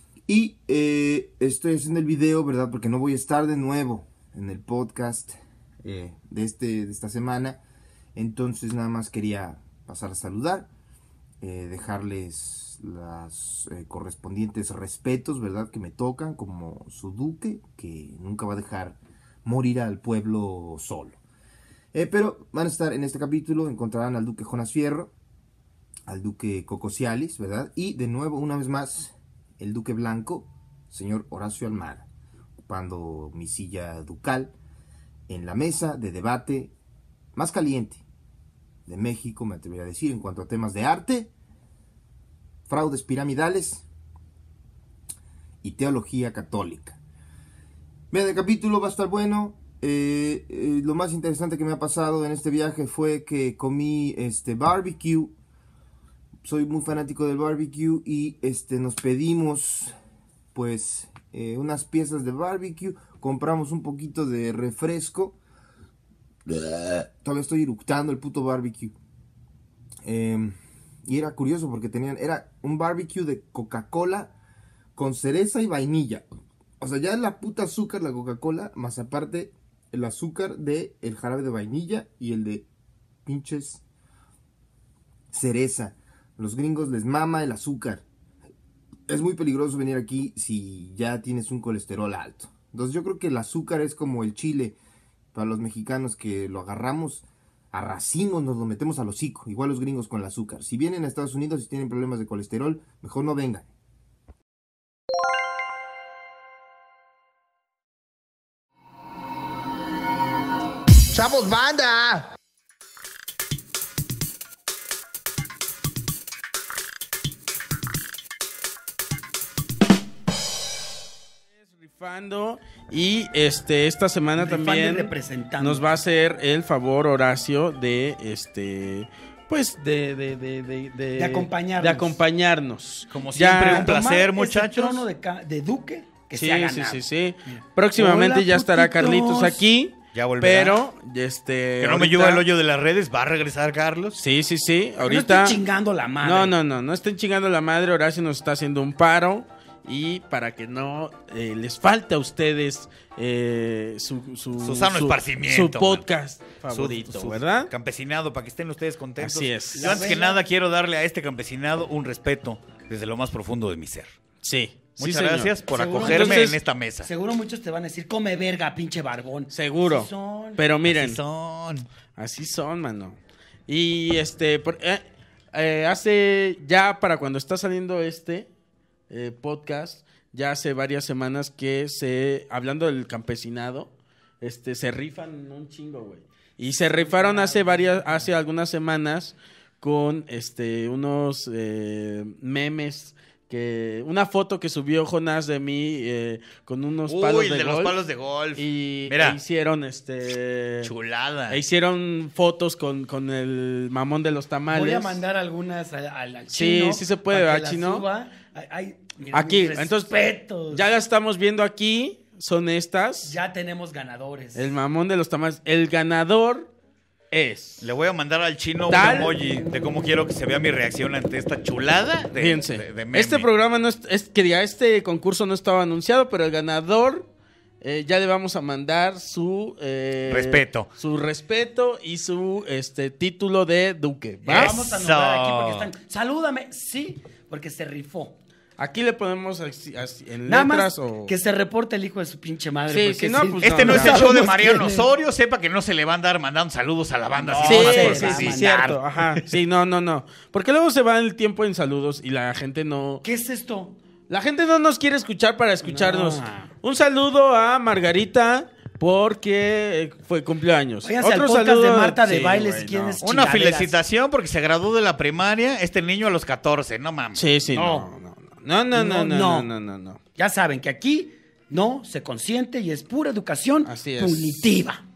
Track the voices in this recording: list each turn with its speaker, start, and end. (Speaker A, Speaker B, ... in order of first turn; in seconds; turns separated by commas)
Speaker A: 0.3-7.6, Speaker A: 8.2-10.7, Speaker A: 11.4-21.2, Speaker A: 21.9-25.1, Speaker A: 26.1-32.0, Speaker A: 32.7-34.5, Speaker A: 35.3-36.7, Speaker A: 37.4-38.0, Speaker A: 38.9-41.3, Speaker A: 42.7-43.9, Speaker A: 45.6-47.0, Speaker A: 48.1-55.3, Speaker A: 56.4-59.9, Speaker A: 60.5-65.4, Speaker A: 66.5-68.9, Speaker A: 70.0-74.3, Speaker A: 75.0-76.2, Speaker A: 76.8-82.7, Speaker A: 83.3-83.8, Speaker A: 85.3-88.0, Speaker A: 89.1-94.8, Speaker A: 95.3-103.7, Speaker A: 111.1-112.3, Speaker B: 121.5-133.9, Speaker C: 124.4-125.9, Speaker C: 131.2-132.2, Speaker D: 133.1-135.1, Speaker C: 133.6-137.1, Speaker B: 136.3-142.5, Speaker C: 137.9-139.6, Speaker D: 140.1-140.8, Speaker D: 141.8-144.2, Speaker B: 144.1-145.6, Speaker C: 145.0-146.5, Speaker B: 146.2-157.7, Speaker D: 154.6-156.1, Speaker D: 156.7-164.1, Speaker B: 159.2-160.1, Speaker C: 159.8-160.4, Speaker B: 164.4-166.6, Speaker D: 165.0-167.1, Speaker C: 165.7-166.5, Speaker C: 167.0-170.6, Speaker B: 169.5-171.2, Speaker D: 170.9-171.9, Speaker B: 172.2-178.5, Speaker B: 179.1-198.0, Speaker C: 186.9-188.1, Speaker D: 197.1-199.4, Speaker B: 198.6-200.9, Speaker D: 200.8-201.6, Speaker B: 201.5-205.2, Speaker C: 204.7-210.9, Speaker B: 206.5-208.1, Speaker B: 209.3-213.4, Speaker C: 213.2-214.7, Speaker B: 214.6-216.7, Speaker B: 217.3-217.9, Speaker D: 217.8-223.5, Speaker B: 218.9-219.4, Speaker B: 222.3-227.3, Speaker B: 227.8-234.8, Speaker D: 230.3-230.9, Speaker D: 234.5-235.9, Speaker C: 234.5-238.3, Speaker B: 238.8-241.3, Speaker C: 240.5-245.1, Speaker B: 242.9-244.2, Speaker D: 243.6-248.7, Speaker C: 247.3-249.0, Speaker B: 247.6-253.2, Speaker C: 253.2-254.0, Speaker B: 254.3-263.2, Speaker C: 255.8-256.7, Speaker C: 261.0-264.0, Speaker D: 263.2-267.5, Speaker B: 267.3-270.2, Speaker C: 267.7-268.1, Speaker C: 268.9-269.7, Speaker C: 270.4-275.0, Speaker B: 273.9-274.7